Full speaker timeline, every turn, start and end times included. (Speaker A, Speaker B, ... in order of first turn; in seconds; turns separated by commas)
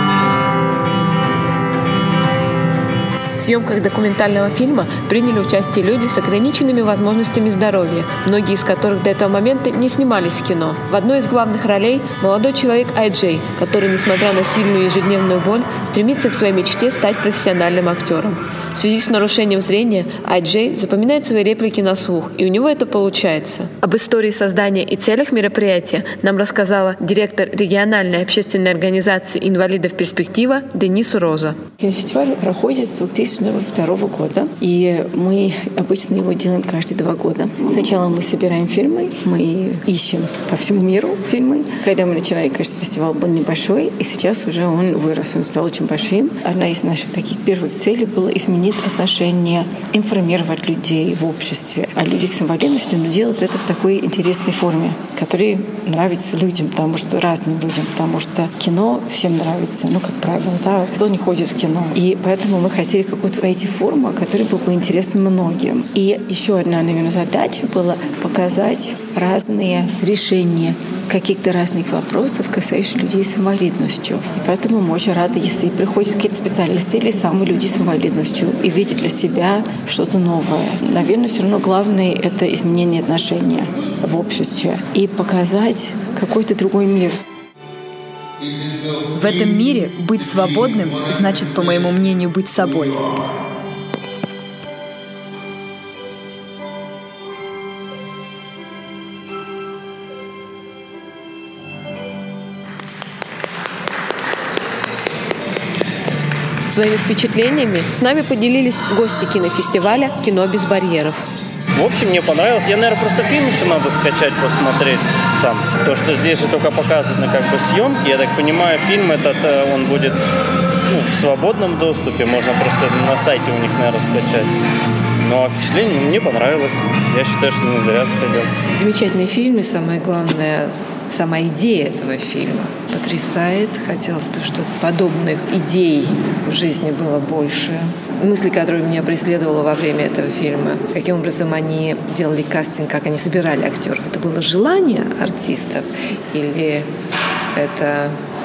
Speaker A: 3.4-31.6, Speaker B: 31.8-87.2, Speaker A: 88.4-91.8, Speaker C: 89.1-93.0, Speaker A: 106.7-111.2, Speaker D: 111.8-120.2, Speaker D: 120.9-124.5, Speaker D: 125.2-128.5, Speaker E: 128.7-146.9, Speaker E: 147.6-148.2